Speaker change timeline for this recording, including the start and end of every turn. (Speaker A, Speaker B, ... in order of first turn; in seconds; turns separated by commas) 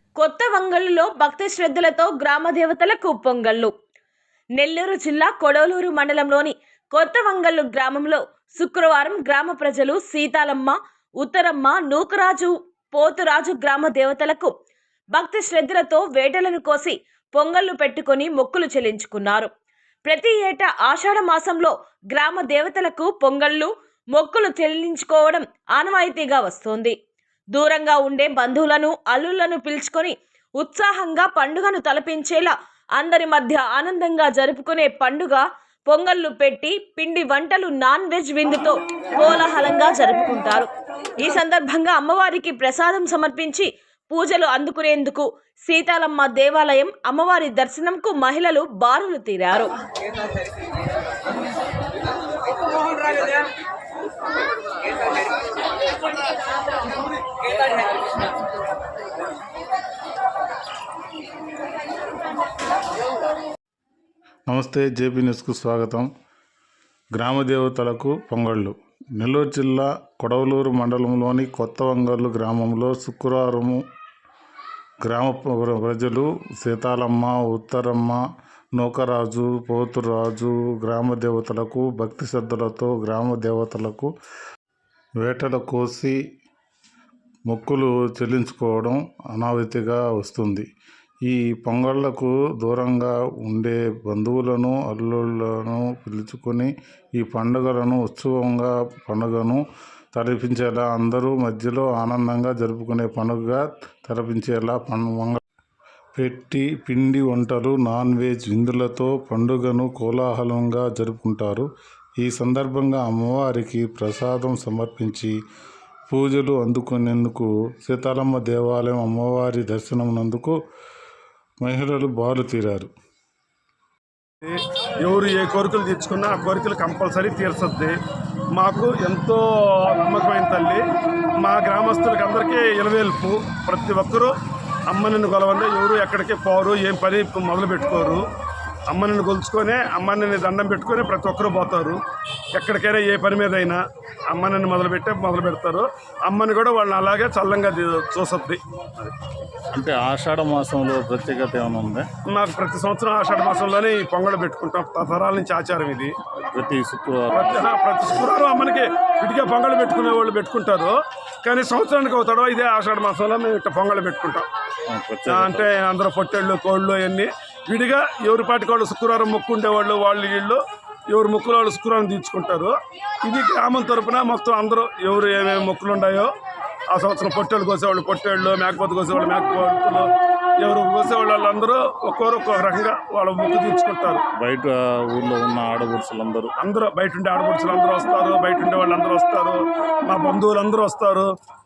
Speaker A: 0.2-3.7, Speaker A: 4.5-14.5, Speaker A: 15.1-19.5, Speaker A: 20.1-26.9, Speaker A: 27.5-49.7, Speaker B: 64.5-66.1, Speaker B: 67.1-73.8, Speaker B: 75.0-78.2, Speaker B: 78.8-84.1, Speaker B: 85.2-86.2, Speaker B: 87.5-90.6, Speaker B: 91.2-105.4, Speaker B: 106.2-111.7, Speaker B: 112.2-115.3, Speaker B: 116.1-120.6, Speaker B: 121.6-122.9, Speaker C: 124.4-127.9, Speaker C: 128.6-130.8, Speaker C: 131.4-134.3, Speaker C: 134.9-138.2, Speaker C: 138.9-142.0, Speaker C: 142.6-143.8, Speaker C: 144.3-149.1, Speaker B: 149.7-152.1, Speaker C: 152.3-156.1, Speaker B: 156.5-157.7, Speaker C: 157.3-160.9, Speaker C: 161.4-164.4, Speaker B: 164.9-165.7, Speaker C: 165.3-170.6, Speaker C: 171.1-172.7, Speaker C: 173.2-176.3, Speaker C: 176.9-180.1, Speaker C: 180.6-184.2, Speaker B: 184.4-186.5, Speaker C: 186.6-191.3